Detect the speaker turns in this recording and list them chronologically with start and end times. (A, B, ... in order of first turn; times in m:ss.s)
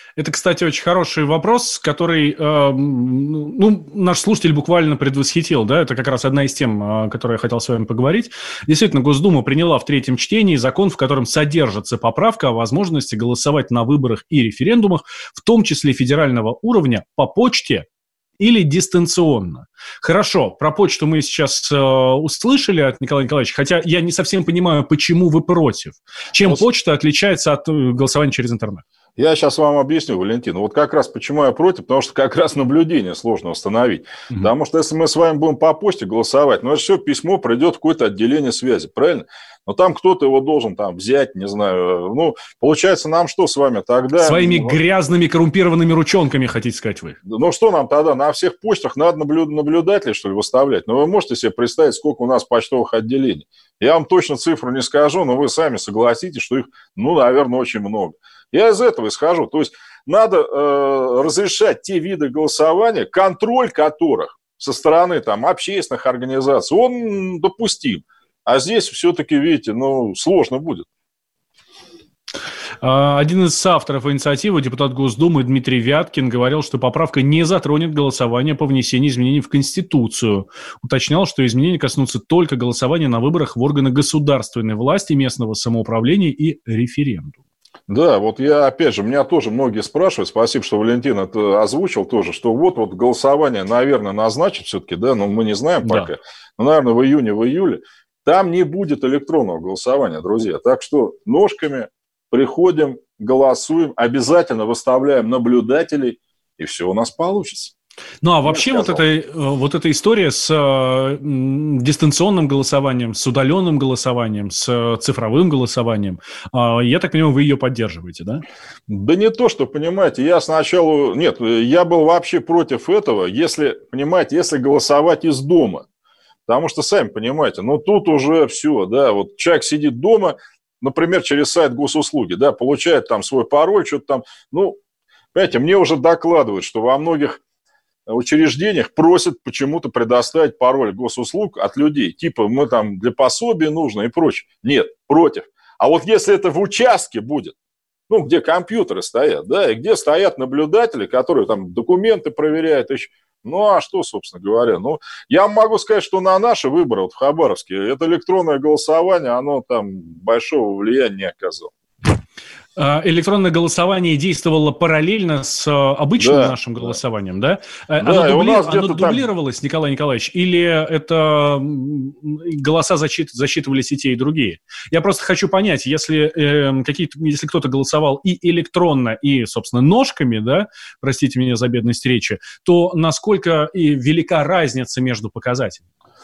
0:00.2-0:17.9 A
0:18.4-0:28.8 A
0:29.2-0:44.8 B
0:44.2-0:47.2 A
0:47.2-1:10.9 B
1:12.8-1:27.4 A
1:27.9-1:47.7 B
1:35.8-1:36.1 A
1:48.2-1:58.4 A
1:48.4-1:49.0 B
1:58.9-2:05.9 B
2:06.5-2:14.8 B
2:15.3-2:17.4 B
2:18.1-2:27.6 B
2:28.1-2:41.7 B
2:42.8-3:05.8 A
2:46.2-2:47.0 B
2:48.0-2:49.3 B